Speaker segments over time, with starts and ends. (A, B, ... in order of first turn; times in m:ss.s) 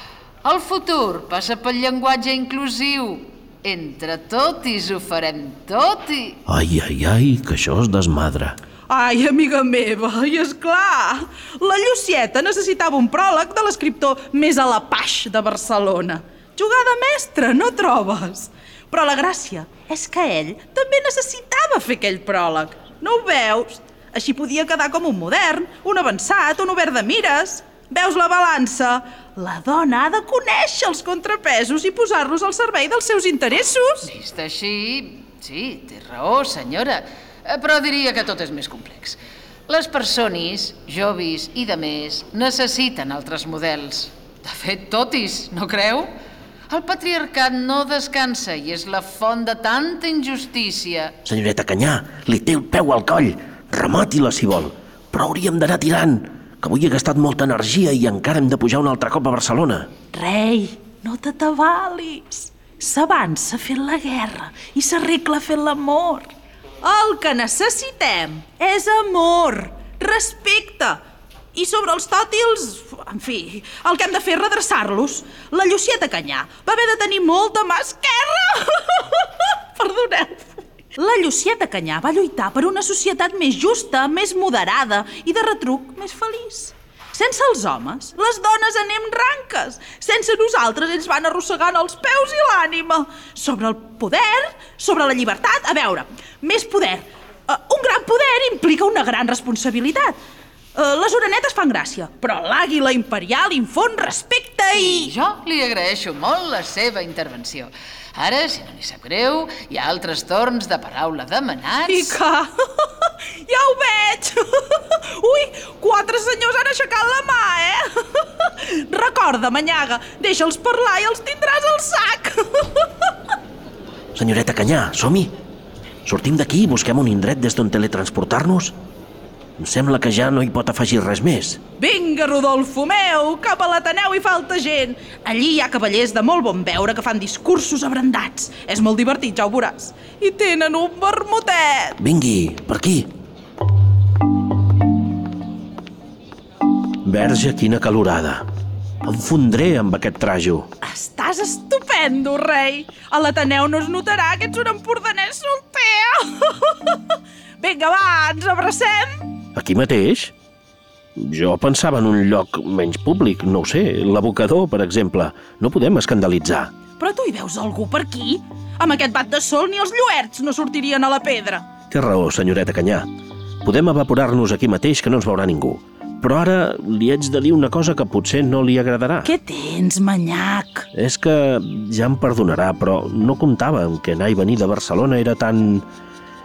0:00.4-0:06.4 A
0:06.5-0:08.6 B
0:08.9-0:34.1 C
0:34.0-0:46.1 A
0:46.7-0:51.2 A
0:51.2-0:59.9 B
1:00.1-1:06.3 C
1:06.8-1:11.0 C
1:11.5-1:40.2 C
1:40.8-1:45.1 C
1:44.7-1:52.2 A
1:51.9-2:03.1 C
2:04.1-2:05.3 B
2:06.0-2:08.8 B
2:09.6-2:11.6 B
2:11.8-2:22.0 C
2:22.0-2:23.1 B
2:27.0-2:28.5 B
2:29.0-2:30.7 B
2:30.8-2:39.2 C
2:39.6-2:40.3 B
2:41.2-2:46.7 B
2:47.0-2:51.7 C
2:51.9-2:53.1 B
2:53.6-2:59.3 B
2:59.2-3:00.9 C
3:00.9-3:05.9 B